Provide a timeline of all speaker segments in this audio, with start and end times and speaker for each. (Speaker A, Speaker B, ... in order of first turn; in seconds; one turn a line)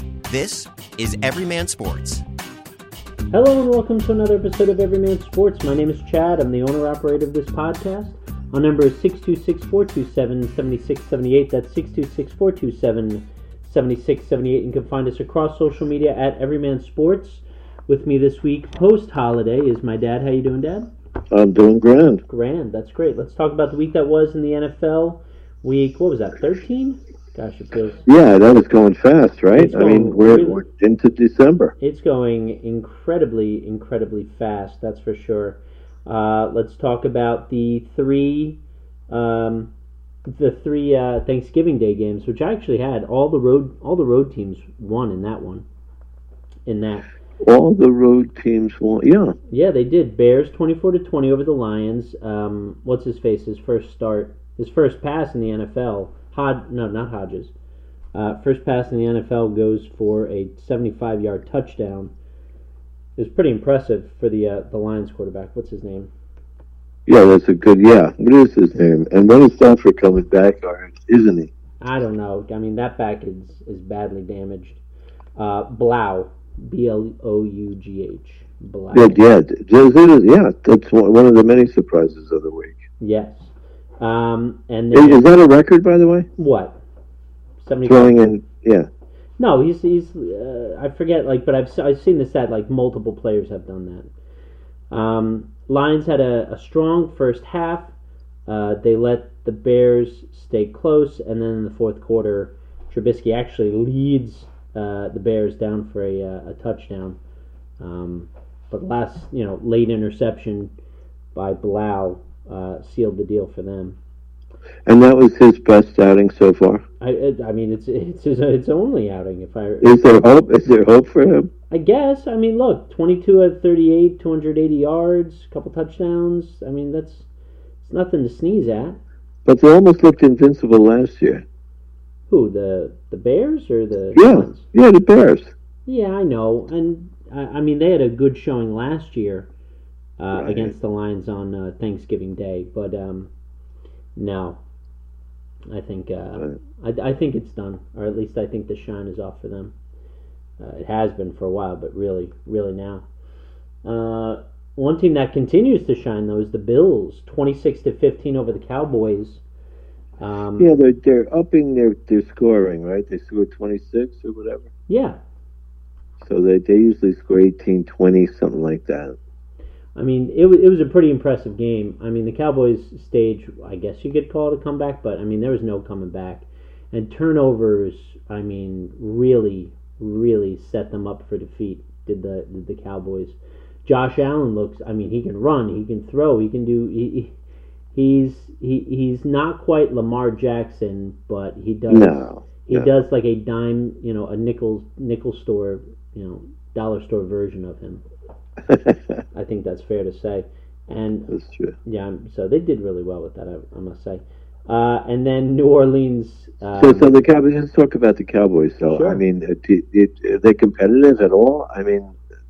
Speaker A: 0.3-2.2
Speaker B: 3.3-20.9
Speaker C: 21.3-22.2
Speaker B: 22.3-28.0
Speaker C: 28.1-31.7
Speaker B: 29.5-30.6
Speaker B: 31.8-38.6
Speaker B: 39.1-39.7
Speaker B: 40.3-45.6
Speaker B: 46.7-47.1
Speaker C: 47.4-49.4
Speaker B: 49.5-57.5
Speaker B: 58.1-62.1
Speaker B: 63.2-66.1
Speaker C: 67.1-71.5
Speaker B: 71.8-74.8
Speaker B: 75.4-79.2
Speaker C: 78.9-82.8
Speaker B: 83.0-85.3
Speaker C: 84.9-86.3
Speaker B: 86.4-86.8
Speaker B: 87.6-88.2
Speaker C: 87.8-88.9
Speaker B: 89.4-94.1
Speaker B: 94.9-97.9
Speaker B: 98.5-107.2
Speaker B: 107.8-110.7
Speaker B: 111.3-114.0
Speaker C: 114.8-116.8
Speaker B: 117.0-120.2
Speaker C: 119.8-121.5
Speaker B: 121.7-127.3
Speaker B: 127.8-129.0
Speaker C: 129.4-131.4
Speaker B: 132.3-134.7
Speaker C: 134.1-135.5
Speaker B: 135.8-139.5
Speaker B: 140.2-143.3
Speaker C: 140.3-140.7
Speaker B: 144.2-144.6
Speaker B: 145.7-149.7
Speaker B: 150.6-153.1
Speaker B: 153.8-159.4
Speaker B: 160.2-160.7
Speaker C: 160.6-164.7
Speaker B: 164.9-165.2
Speaker C: 166.2-169.2
Speaker B: 169.9-187.3
Speaker B: 187.9-198.0
Speaker C: 191.9-192.9
Speaker C: 198.7-199.2
Speaker B: 199.3-201.3
Speaker C: 201.3-201.8
Speaker B: 201.8-207.1
Speaker C: 206.7-212.2
Speaker B: 208.9-209.2